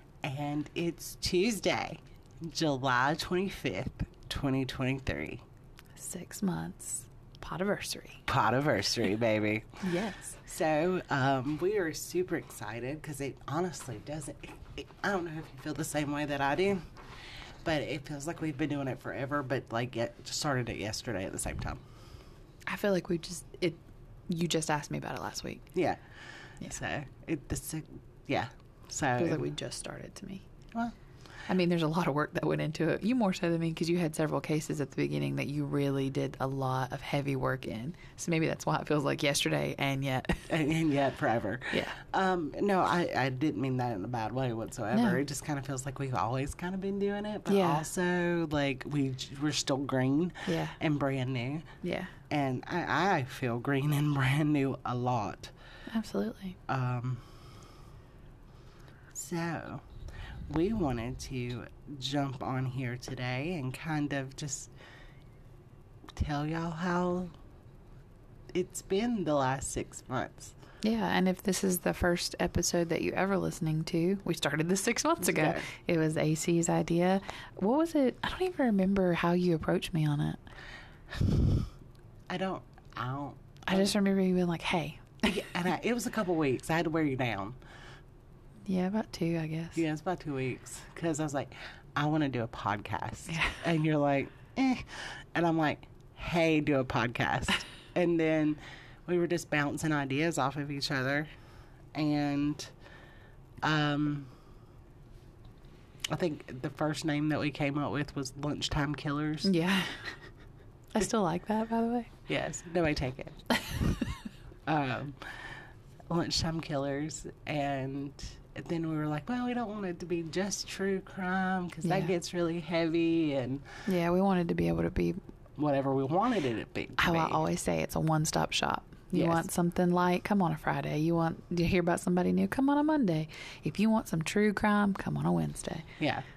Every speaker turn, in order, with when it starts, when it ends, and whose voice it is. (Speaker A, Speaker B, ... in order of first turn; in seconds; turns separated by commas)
Speaker A: 0.2-5.4, Speaker B: 6.0-8.2, Speaker A: 8.3-9.8, Speaker B: 9.8-10.4, Speaker A: 10.4-16.9, Speaker A: 17.6-21.8, Speaker B: 22.7-25.7, Speaker A: 25.7-26.0, Speaker A: 26.6-29.4, Speaker B: 29.2-30.4, Speaker B: 31.5-40.5, Speaker A: 40.5-51.7, Speaker B: 44.9-45.2, Speaker B: 47.5-47.9, Speaker B: 50.5-50.8, Speaker B: 51.8-52.1, Speaker A: 52.3-55.5, Speaker B: 55.9-56.6, Speaker A: 56.7-57.2, Speaker A: 59.1-59.8, Speaker A: 60.5-64.7, Speaker A: 66.2-67.3, Speaker A: 68.5-70.5, Speaker B: 70.8-80.4, Speaker A: 75.2-75.7, Speaker A: 82.3-83.9, Speaker B: 83.7-85.2, Speaker A: 85.2-87.6, Speaker B: 88.7-89.8, Speaker A: 89.8-101.3, Speaker B: 93.3-93.6, Speaker A: 101.9-102.7, Speaker A: 103.6-104.3, Speaker A: 106.1-109.5, Speaker B: 109.4-110.1, Speaker B: 110.9-112.1, Speaker A: 112.3-113.4, Speaker A: 114.7-123.7, Speaker B: 121.8-122.1, Speaker B: 123.9-125.2, Speaker A: 125.6-127.4, Speaker B: 127.0-135.9, Speaker A: 129.1-129.5, Speaker A: 136.0-136.2